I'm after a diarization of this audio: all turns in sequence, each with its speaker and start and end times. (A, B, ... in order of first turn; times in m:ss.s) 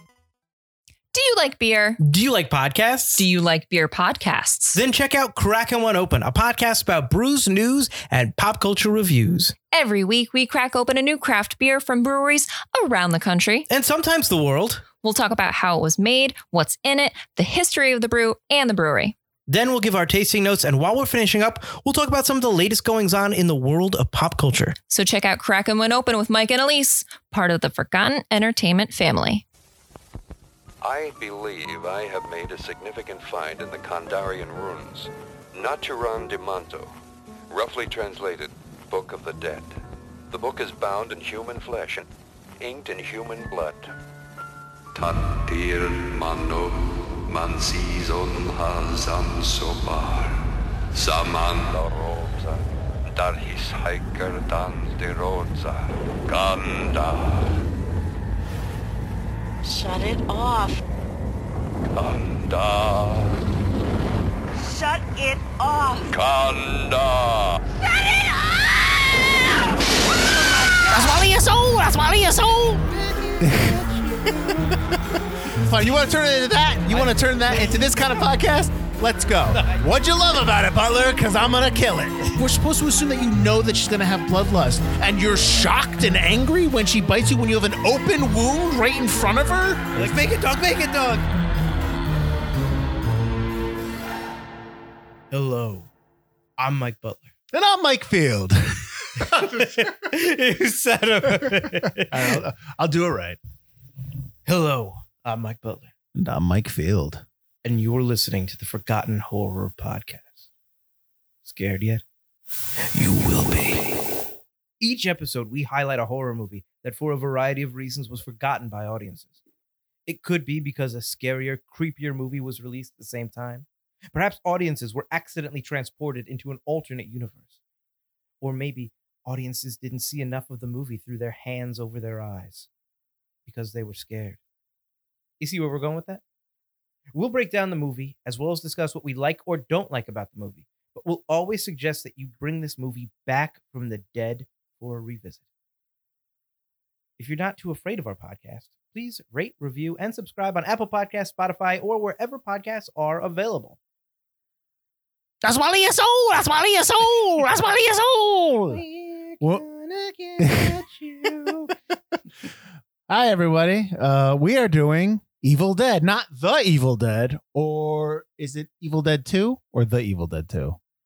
0:01.1-0:02.0 A
0:02.0-0:03.2 B
0:03.2-0:04.8 A
0:04.7-0:09.5 B
0:09.7-0:13.7 A
0:13.7-0:14.8 B
0:15.0-0:19.1 A
0:19.5-0:24.8 B
0:24.9-0:29.4 A
0:30.8-0:36.9 C
0:37.5-0:39.8 C
0:40.3-0:42.1 C
0:42.6-0:43.9 C
0:44.9-0:50.4 C
0:50.9-0:57.6 C
0:59.6-1:00.8 D
1:01.9-1:03.4 C
1:04.6-1:06.1 D
1:06.1-1:07.6 C
1:07.8-1:11.0 D
1:10.9-1:12.8 E
1:12.8-1:14.4 B
1:13.4-1:30.2 E
1:16.9-1:18.0 B
1:19.5-1:19.8 B
1:29.9-1:31.3 B
1:35.3-1:35.9 B
1:36.6-1:37.3 B
1:37.5-1:39.9 E
1:39.2-1:42.4 B
1:41.3-1:43.4 E
1:44.4-1:45.9 B
1:46.1-1:47.2 E
1:47.6-1:50.4 B
1:51.4-1:52.0 B
1:52.9-1:53.8 B
1:54.8-1:59.4 B
2:00.1-2:07.5 B
2:08.4-2:12.7 B
2:13.4-2:14.4 B
2:15.4-2:16.2 B
2:17.1-2:25.4 B
2:27.2-2:33.8 B
2:35.4-2:38.8 E
2:38.7-2:41.7 B
2:40.4-2:41.5 E
2:43.1-2:50.8 E